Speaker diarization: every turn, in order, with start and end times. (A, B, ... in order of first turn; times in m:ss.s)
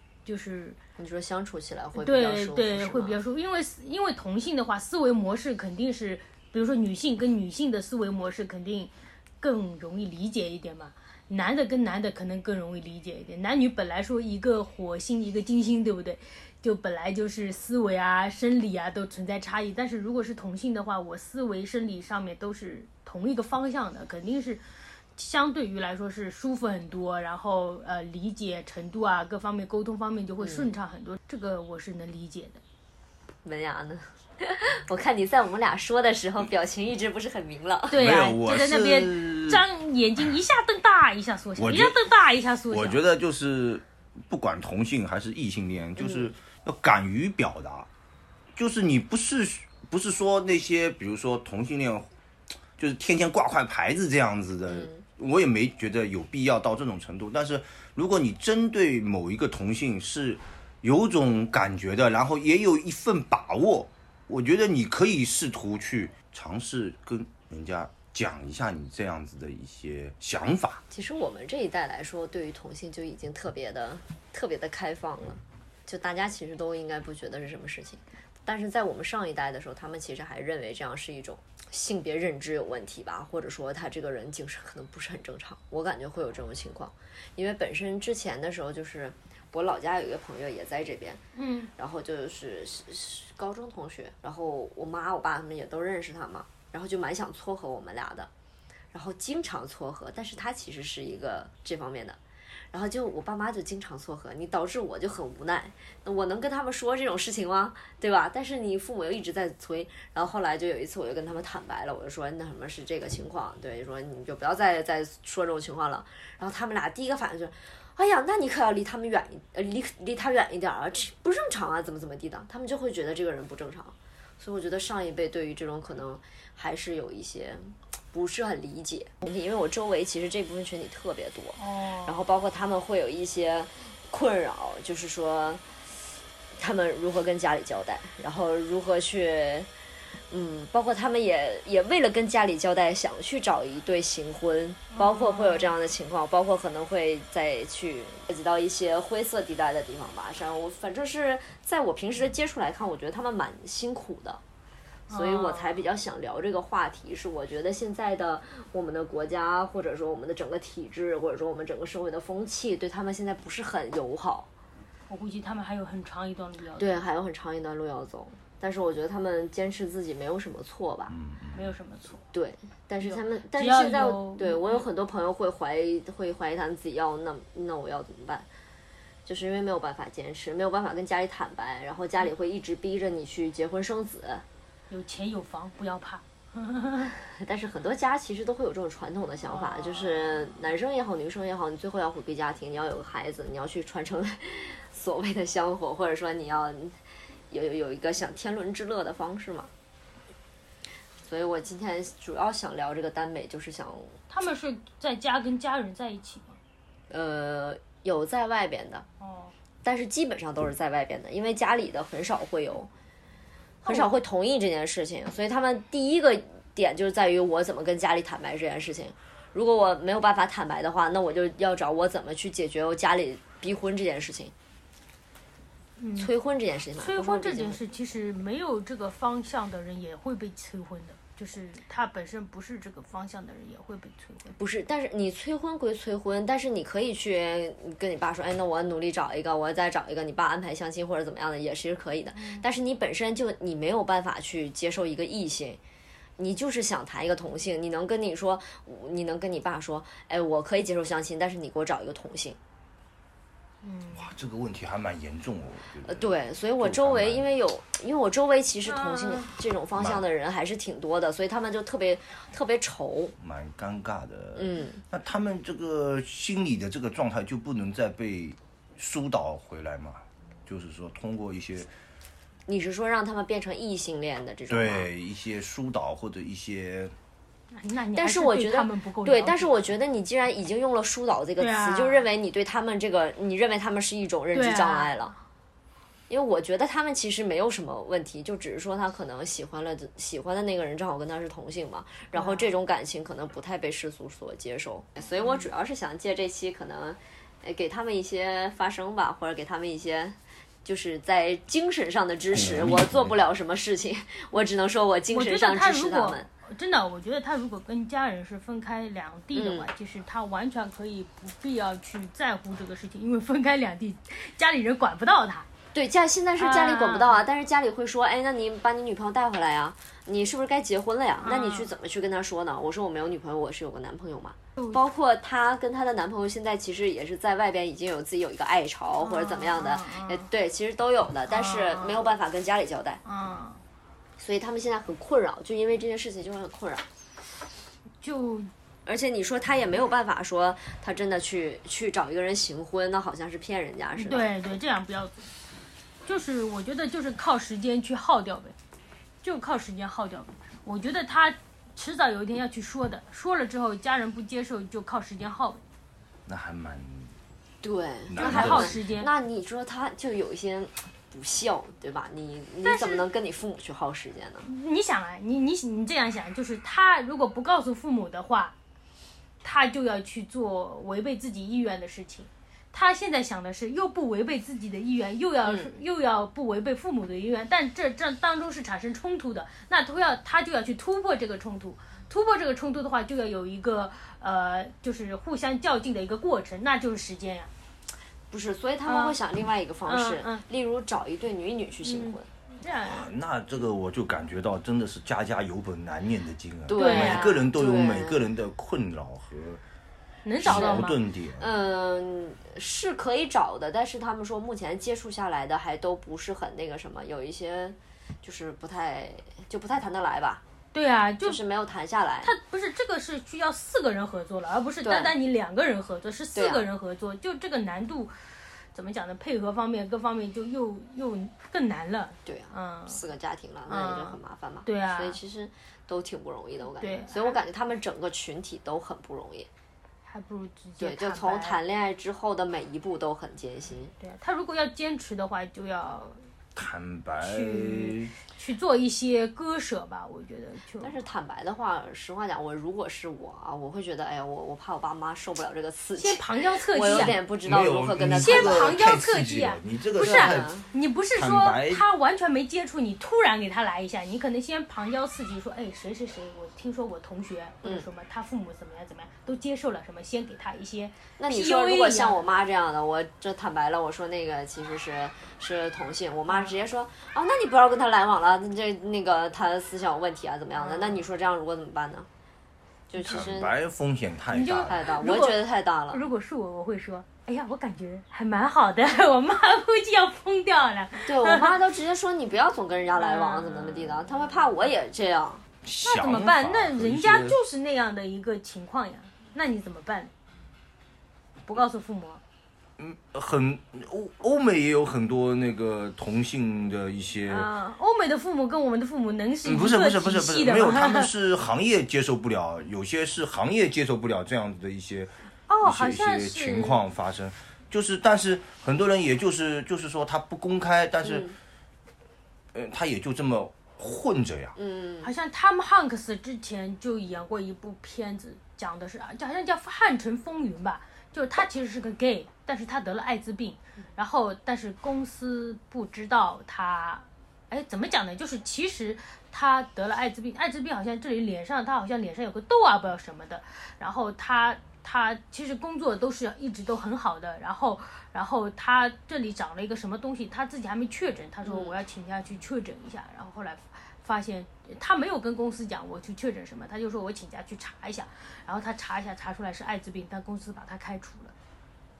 0:00.2-0:00.8 A
0:01.0-0:03.2 B
0:02.0-0:24.6 A
0:25.2-0:32.6 A
0:30.4-0:30.7 B
0:33.4-0:38.2 B
0:37.9-0:43.0 A
0:38.0-0:39.6 C
0:41.6-0:42.0 C
0:42.7-0:47.9 C
0:46.0-0:46.3 B
0:48.6-0:52.1 C
0:52.8-1:10.8 C
0:54.7-0:55.0 B
1:10.9-1:31.2 B
1:31.4-1:31.7 A
1:31.8-1:38.3 B
1:38.9-1:42.2 B
1:42.7-2:15.7 B
2:11.6-2:12.2 A
2:16.6-2:19.7 B
2:20.3-2:34.4 B
2:24.9-2:25.7 A
2:35.1-2:35.8 A
2:35.1-2:44.5 B
2:45.1-2:47.0 A
2:46.8-2:51.2 B
2:51.1-2:51.7 C
2:51.5-2:52.2 A
2:52.3-2:58.5 B
2:53.0-2:54.9 A
2:59.3-3:04.4 B
3:04.9-3:07.2 A
3:07.2-3:17.0 B
3:09.5-3:10.5 A
3:17.5-3:19.7 B
3:21.2-3:24.2 B
3:24.3-3:26.6 A
3:27.1-3:29.1 B
3:29.2-3:29.5 A
3:29.8-3:32.9 B
3:33.8-3:34.1 A
3:33.8-3:44.5 B
3:46.0-3:46.3 A
3:46.2-3:47.8 B
3:47.0-3:54.5 A
3:54.5-4:05.8 B
4:02.4-4:02.6 A
4:06.4-4:12.6 B
4:13.8-4:14.3 A
4:14.1-4:17.5 C
4:16.0-4:23.4 B
4:18.8-4:19.5 A
4:20.0-4:20.2 C
4:23.4-4:31.9 C
4:24.6-4:25.0 B
4:32.7-4:35.1 B
4:34.7-4:37.2 C
4:37.8-4:39.8 A
4:38.2-4:45.3 B
4:41.6-4:42.3 A
4:44.5-4:45.4 A
4:46.3-5:06.5 B
4:52.3-4:52.7 A
4:55.4-4:55.7 A
5:02.6-5:03.3 C
5:05.3-5:15.7 A
5:09.5-5:09.9 B
5:15.9-5:33.2 B
5:16.6-5:17.4 A
5:21.4-5:21.9 A
5:24.8-5:25.0 A
5:29.2-5:30.5 A
5:31.5-5:32.3 A
5:33.3-5:33.8 A
5:34.4-5:37.1 B
5:38.2-5:38.7 A
5:39.1-5:44.5 B
5:44.2-5:45.4 A
5:46.3-5:48.8 A
5:49.4-5:55.8 A
5:56.5-5:57.3 C
5:57.8-6:04.7 B
5:58.3-5:59.0 C
5:58.4-5:59.3 A
6:02.8-6:03.2 A
6:04.6-6:08.8 A
6:09.6-6:27.7 A
6:15.6-6:15.9 B
6:28.5-6:32.5 B
6:29.1-6:29.4 A
6:30.1-6:30.6 A
6:32.0-6:33.3 A
6:33.1-6:39.8 C
6:36.9-6:38.5 B
6:36.9-6:37.6 A
6:40.4-6:41.2 A
6:40.6-6:41.7 C
6:40.6-6:50.6 B
6:50.9-6:51.6 A
6:51.4-6:52.6 B
6:52.4-6:58.3 A
6:55.0-6:55.4 B
6:56.6-6:56.8 B
6:58.9-7:03.2 A
7:02.5-7:09.7 B
7:03.9-7:05.4 A
7:06.9-7:07.6 A
7:10.2-7:11.8 A
7:11.0-7:14.1 B
7:14.2-7:16.4 A
7:16.8-7:18.3 C
7:17.4-7:21.2 A
7:21.0-7:29.0 B
7:26.2-7:27.4 A
7:27.1-7:30.7 C
7:28.4-7:42.4 A
7:30.2-7:30.8 B
7:31.4-7:32.1 C
7:41.4-7:52.3 B
7:46.5-7:46.8 A
7:50.8-7:51.2 A
7:53.1-7:53.7 B
7:53.2-7:54.9 C
7:54.5-8:01.8 A
7:54.9-7:56.2 B
8:01.3-8:05.7 B
8:03.2-8:04.2 A
8:05.8-8:07.6 C
8:06.0-8:10.3 A
8:11.7-8:12.4 A
8:13.0-8:17.7 C
8:17.5-8:21.3 A
8:19.6-8:25.3 C
8:25.7-8:27.0 A
8:25.8-8:31.5 C
8:31.2-8:31.6 B
8:32.7-8:34.8 C
8:34.8-8:35.3 B
8:35.2-9:11.6 A
9:01.6-9:02.0 B